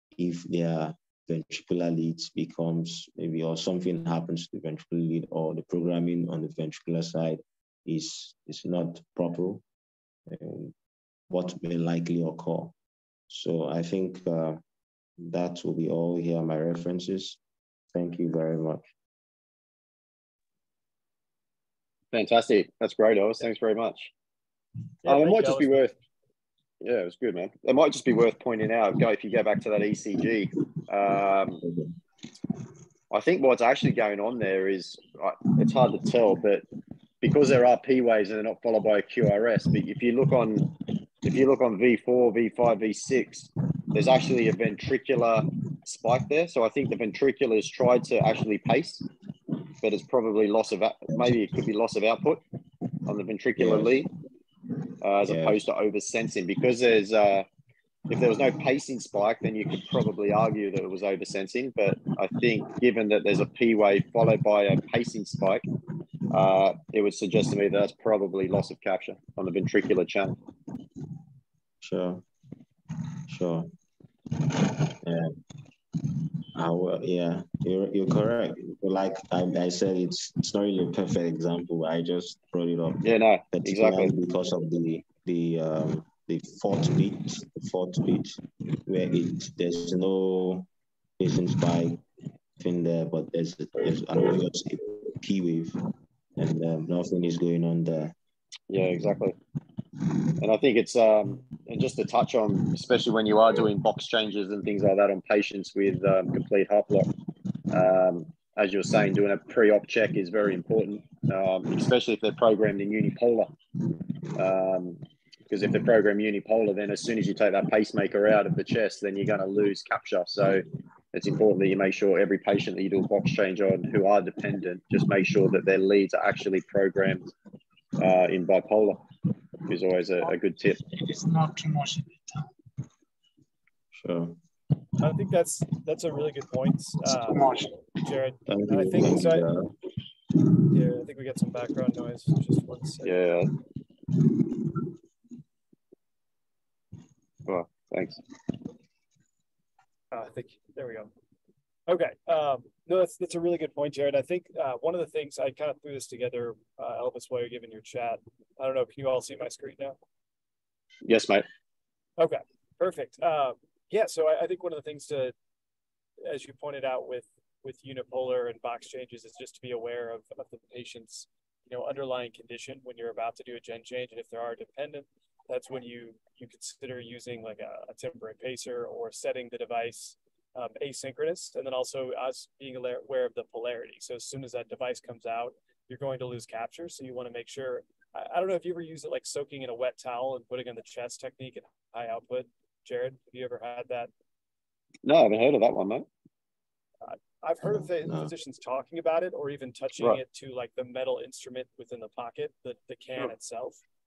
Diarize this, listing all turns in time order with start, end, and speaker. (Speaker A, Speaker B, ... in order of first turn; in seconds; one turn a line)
Speaker A: 0.1-9.6
Speaker A: 10.3-10.7
Speaker A: 11.3-12.7
Speaker A: 13.3-14.6
Speaker A: 15.2-17.4
Speaker A: 17.9-18.9
Speaker B: 22.1-24.1
Speaker B: 25.0-25.9
Speaker C: 25.0-25.9
Speaker B: 26.8-31.6
Speaker B: 33.1-36.6
Speaker B: 37.2-40.6
Speaker B: 41.2-49.0
Speaker B: 49.8-52.4
Speaker B: 53.1-54.1
Speaker A: 53.6-54.0
Speaker B: 55.0-57.5
Speaker A: 55.2-55.6
Speaker B: 58.1-65.6
Speaker B: 66.3-70.3
Speaker A: 71.8-72.2
Speaker A: 73.3-73.7
Speaker A: 75.0-75.4
Speaker A: 76.5-92.0
Speaker B: 83.0-84.1
Speaker A: 92.6-95.8
Speaker A: 96.4-98.1
Speaker B: 98.7-99.3
Speaker B: 100.4-107.1
Speaker B: 107.7-113.5
Speaker B: 114.3-127.3
Speaker B: 128.0-129.0
Speaker B: 129.7-130.8
Speaker D: 130.8-132.2
Speaker A: 133.9-134.4
Speaker C: 135.0-139.5
Speaker D: 137.2-137.7
Speaker A: 138.5-139.7
Speaker C: 140.7-143.1
Speaker B: 143.0-143.5
Speaker B: 147.4-148.2
Speaker C: 150.1-151.1
Speaker C: 151.9-159.9
Speaker B: 161.0-161.4
Speaker C: 162.2-165.3
Speaker C: 166.2-194.1
Speaker B: 195.0-196.1
Speaker C: 197.0-203.8
Speaker A: 197.6-198.3